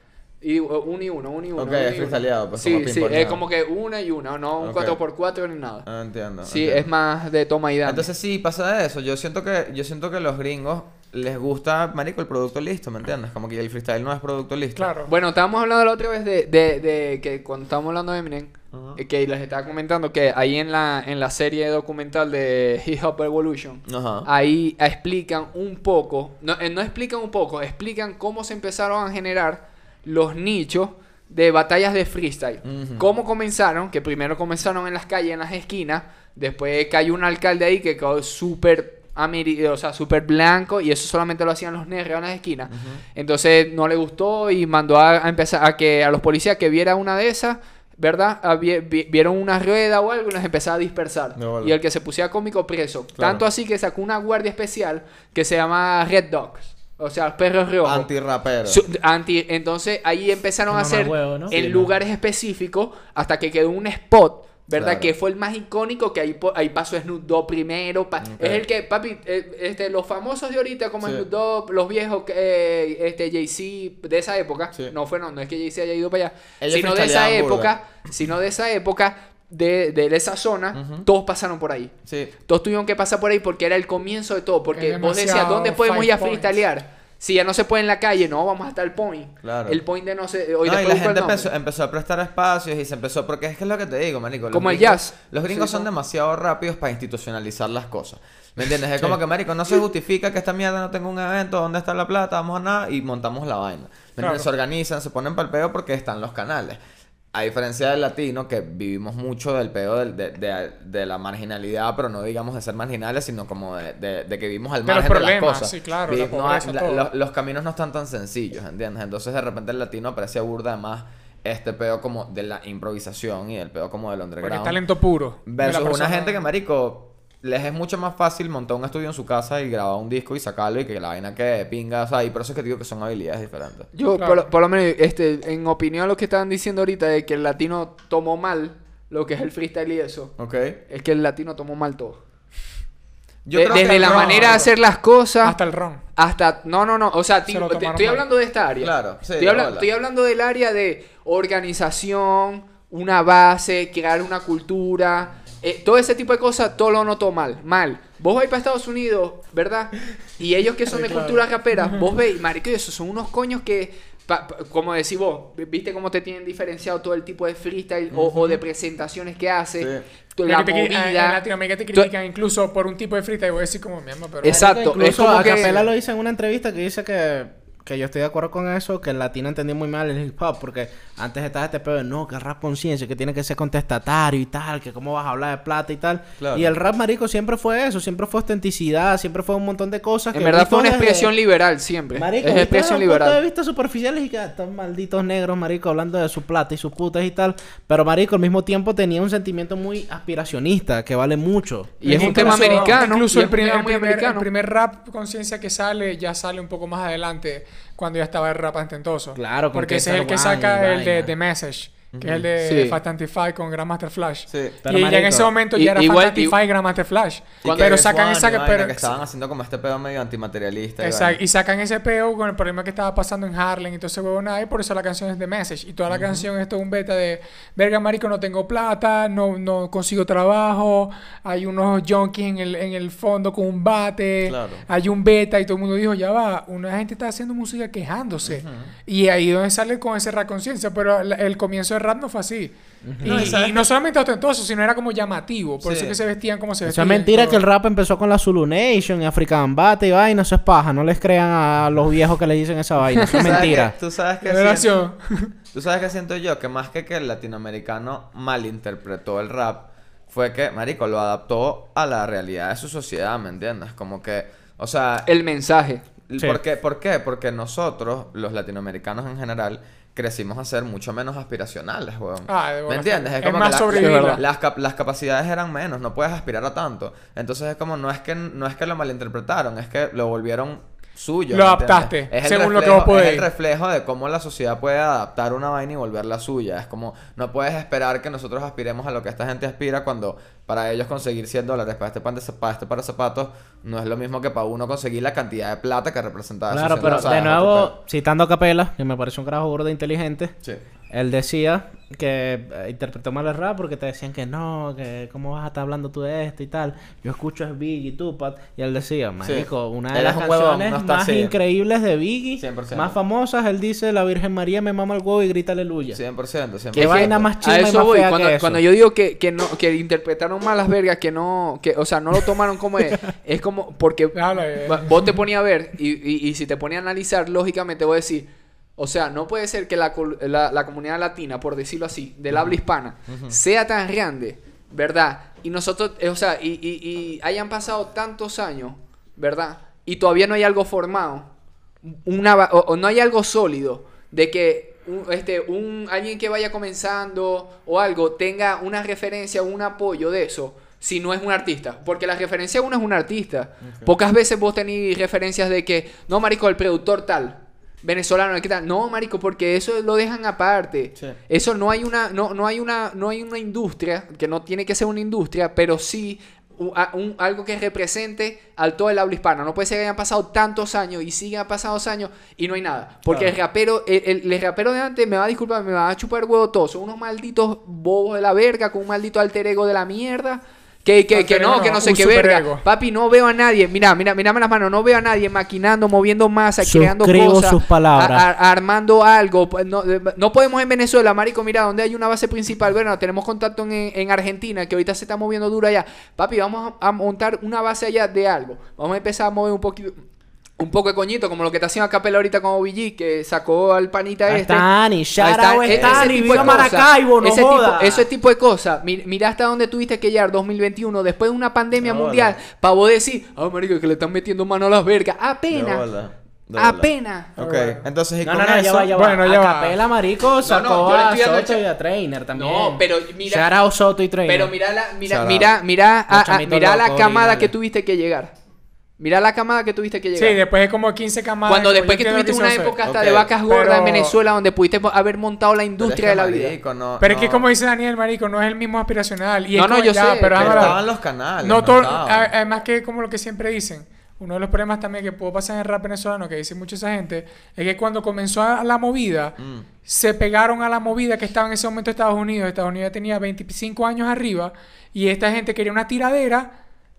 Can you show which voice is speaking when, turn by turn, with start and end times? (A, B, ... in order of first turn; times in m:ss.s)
0:00.4-0:05.9 A
0:01.6-0:03.4 B
0:04.6-0:05.0 B
0:05.8-0:06.9 B
0:06.4-0:08.1 A
0:07.8-0:14.9 B
0:14.8-0:15.1 C
0:15.1-0:58.1 A
0:18.7-0:19.0 B
0:23.9-0:24.3 B
0:32.6-0:33.0 B
0:42.7-0:43.0 B
0:51.4-0:51.7 B
0:53.2-0:53.4 B
0:57.8-0:58.8 B
0:58.6-1:21.9 A
1:00.7-1:01.9 D
1:04.7-1:05.1 B
1:08.2-1:08.6 B
1:16.6-1:17.7 B
1:20.7-1:21.1 B
1:22.0-1:22.3 B
1:22.4-1:31.5 A
1:24.7-1:26.5 C
1:29.4-1:29.8 B
1:30.6-1:46.8 B
1:34.5-1:35.8 A
1:44.2-1:44.4 C
1:47.3-2:04.8 B
1:54.8-1:57.1 C
2:04.4-2:06.4 C
2:05.4-2:13.9 B
2:13.9-2:20.3 A
2:14.2-2:14.4 C
2:20.4-2:20.8 B
2:20.9-2:22.2 A
2:23.4-2:24.7 B
2:23.5-2:25.5 A
2:23.6-2:24.7 C
2:25.4-2:26.0 C
2:26.2-2:51.4 A
2:27.5-2:28.2 C
2:28.8-2:29.9 B
2:40.9-2:42.0 C
2:48.1-2:48.6 B
2:50.5-2:54.6 C
2:54.4-2:55.8 A
2:54.4-3:11.3 D
3:06.4-3:06.7 B
3:10.3-3:13.4 A
3:12.1-3:23.0 D
3:22.0-3:24.4 A
3:22.0-3:39.1 C
3:29.3-3:31.3 D
3:32.1-3:32.5 B
3:32.6-3:33.0 A
3:34.5-3:34.8 B
3:34.8-3:35.5 D
3:35.8-3:36.6 A
3:37.6-3:41.4 B
3:41.0-4:07.6 C
3:46.1-3:46.5 B
3:54.4-3:54.8 B
3:58.4-3:58.9 B
4:03.0-4:03.6 D
4:03.2-4:03.8 B
4:05.8-4:06.2 B
4:06.8-4:13.9 D
4:13.3-4:14.9 B
4:14.4-4:15.5 C
4:15.7-4:25.3 B
4:25.2-4:26.0 A
4:26.3-4:57.9 B
4:32.4-4:34.4 C
4:33.9-4:34.4 A
4:41.5-4:43.5 C
4:56.7-5:00.5 D
5:01.1-5:16.2 D
5:09.4-5:11.5 B
5:12.6-5:13.2 B
5:16.1-5:17.5 B
5:16.9-5:18.8 D
5:16.9-5:41.5 A
5:24.3-5:25.1 C
5:33.3-5:33.6 B
5:42.0-6:40.2 A
5:53.8-5:54.1 B
6:13.3-6:13.5 B
6:21.3-6:22.8 C
6:26.8-6:28.5 D
6:40.8-6:56.0 A
6:44.5-6:48.3 D
6:45.9-6:47.0 B
6:52.0-6:52.6 B
6:55.7-6:59.1 B
6:56.8-6:57.5 A
6:57.6-6:58.0 C
6:58.4-7:04.7 D
6:59.1-7:00.0 C
7:00.6-7:01.8 A
7:02.5-7:03.7 A
7:04.4-7:08.5 A
7:05.2-7:05.7 B
7:06.3-7:07.7 D
7:09.2-7:10.6 A
7:10.4-7:12.9 C
7:11.7-7:16.8 A
7:13.0-7:13.5 B
7:13.6-7:14.4 C
7:16.0-7:17.7 B
7:17.2-7:36.7 C
7:19.8-7:21.0 A
7:20.6-7:22.5 B
7:29.6-7:29.9 B